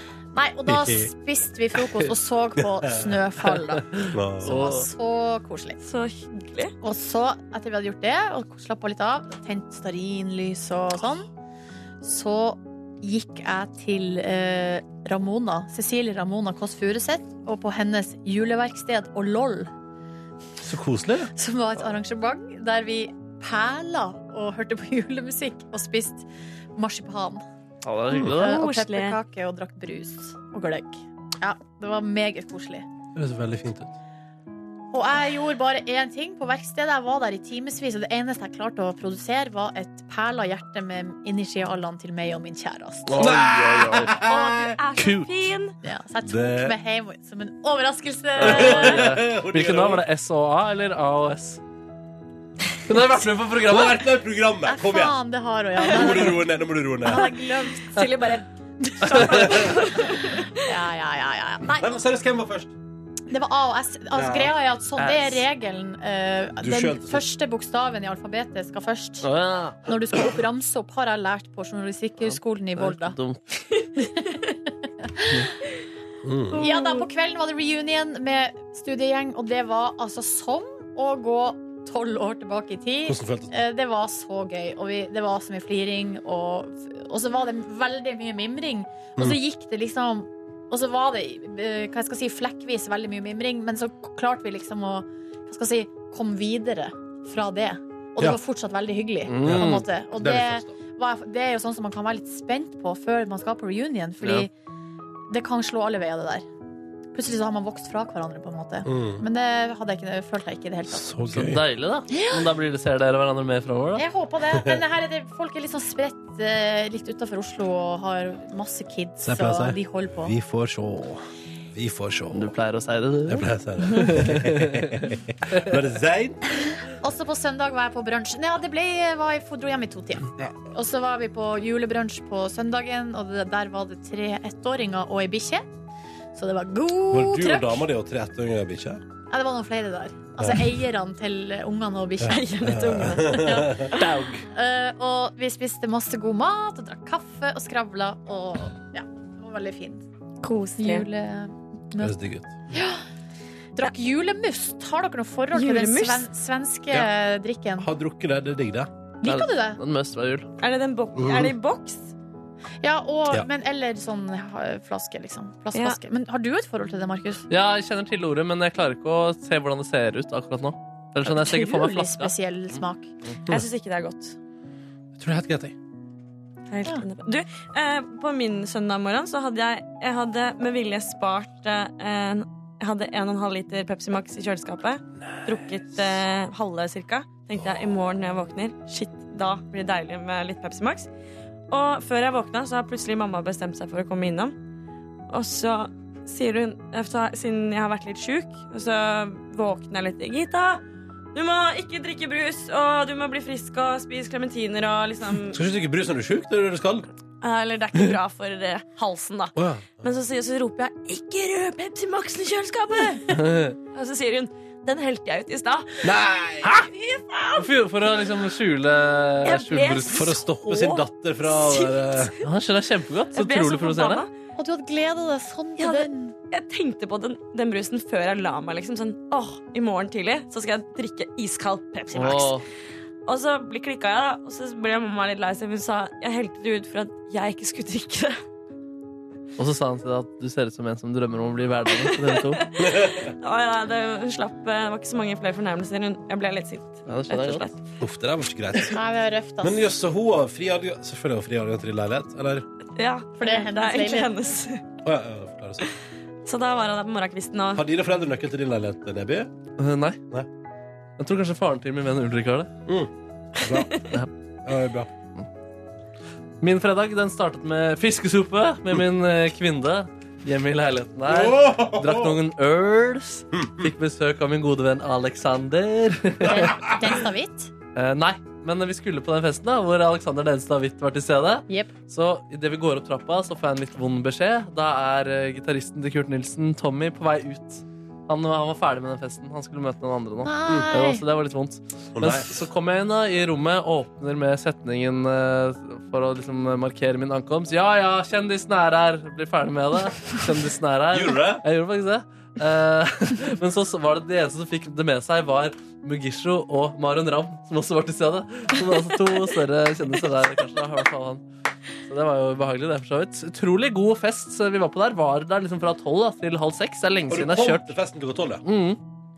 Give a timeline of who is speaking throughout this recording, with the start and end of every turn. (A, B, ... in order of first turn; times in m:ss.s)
0:00.3-0:03.9 A
0:00.7-0:01.1 B
0:02.6-0:03.1 B
0:04.0-0:04.9 C
0:04.1-0:04.5 B
0:04.4-0:05.8 A
0:05.8-0:06.7 D
0:06.8-0:11.3 A
0:12.0-0:19.7 A
0:20.6-0:21.3 B
0:21.3-0:26.2 A
0:26.8-0:27.4 A
0:27.8-0:28.6 C
0:28.1-0:32.9 A
0:28.3-0:29.2 D
0:33.1-0:33.9 B
0:34.9-0:43.3 A
0:43.1-0:44.2 C
0:43.2-0:44.7 B
0:44.2-0:45.7 D
0:44.4-0:44.7 A
0:45.0-0:45.5 C
0:45.8-0:49.0 A
0:46.2-0:46.8 B
0:48.4-0:51.6 C
0:48.4-0:50.0 B
0:52.9-0:54.0 C
0:53.6-0:55.2 B
0:54.6-0:56.4 A
0:55.9-0:57.2 B
0:57.0-0:58.1 A
0:57.1-0:58.4 D
0:58.8-1:02.0 A
0:59.0-1:00.6 D
1:01.7-1:02.7 B
1:03.3-1:09.3 A
1:04.1-1:04.5 B
1:05.0-1:05.4 C
1:06.6-1:07.2 B
1:09.2-1:09.8 C
1:09.8-1:13.1 A
1:12.3-1:13.4 C
1:15.0-1:15.4 A
1:16.2-1:16.6 B
1:16.6-1:44.5 A
1:16.6-1:17.0 D
1:23.0-1:23.5 B
1:39.2-1:39.8 C
1:39.4-1:40.7 B
1:45.3-1:46.4 A
1:47.1-1:51.1 A
1:48.8-1:49.2 B
1:50.9-1:51.6 B
1:51.3-1:54.0 C
1:52.1-1:52.4 A
1:54.0-2:00.3 A
1:54.5-1:54.8 B
1:59.2-2:02.5 B
2:02.3-2:05.7 C
2:03.3-2:06.4 B
2:07.0-2:15.7 A
2:16.3-2:17.8 A
2:17.1-2:19.0 B
2:19.3-2:22.4 A
2:20.4-2:20.7 B
2:22.2-2:24.1 D
2:22.2-2:23.9 B
2:23.3-2:23.9 A
2:24.0-2:24.4 C
2:24.5-2:30.0 A
2:30.4-2:31.1 D
2:30.8-2:32.1 A
2:32.0-2:32.6 B
2:32.7-2:33.0 A
2:33.8-2:37.9 A
2:35.5-2:36.3 D
2:37.8-2:38.9 B
2:39.2-2:39.8 A
2:39.2-2:40.5 C
2:40.6-2:42.1 D
2:41.2-2:41.5 B
2:42.8-2:47.4 A
2:45.7-2:46.0 D
2:47.5-2:52.3 C
2:51.2-2:53.1 A
2:53.5-2:54.4 D
2:55.2-2:55.7 B
2:56.7-3:11.1 D
3:11.7-3:14.6 D
3:15.3-3:20.8 D
3:21.3-3:25.6 D
3:25.5-3:27.0 B
3:27.4-3:33.4 D
3:29.6-3:30.1 B
3:33.3-3:33.8 C
3:33.9-3:36.1 D
3:36.0-3:36.8 B
3:36.8-3:37.7 D
3:37.6-3:40.3 C
3:39.4-3:42.4 D
3:40.1-3:42.3 B
3:42.4-3:44.2 C
3:43.3-3:44.3 D
3:44.6-3:46.3 A
3:45.8-3:52.6 D
3:52.1-3:52.6 C
3:53.2-3:58.4 D
3:59.6-4:02.6 C
4:01.9-4:07.8 D
4:02.8-4:03.3 B
4:07.1-4:07.7 C
4:08.0-4:09.0 B
4:08.9-4:09.9 A
4:09.6-4:12.6 B
4:13.0-4:14.8 D
4:13.4-4:14.3 A
4:15.0-4:15.8 B
4:16.4-4:17.9 D
4:17.7-4:19.5 B
4:19.8-4:20.2 C
4:21.2-4:22.7 C
4:22.9-4:23.9 B
4:23.7-4:24.0 D
4:24.6-4:25.1 B
4:26.6-4:36.9 C
4:31.3-4:32.4 B
4:33.5-4:33.9 B
4:36.4-4:37.7 A
4:36.5-4:36.9 B
4:37.9-5:11.4 C
4:50.4-4:51.2 A
4:50.7-4:50.9 B
4:52.1-4:52.6 B
5:01.1-5:01.6 B
5:12.0-5:18.0 C
5:17.3-5:18.6 B
5:18.6-5:19.0 C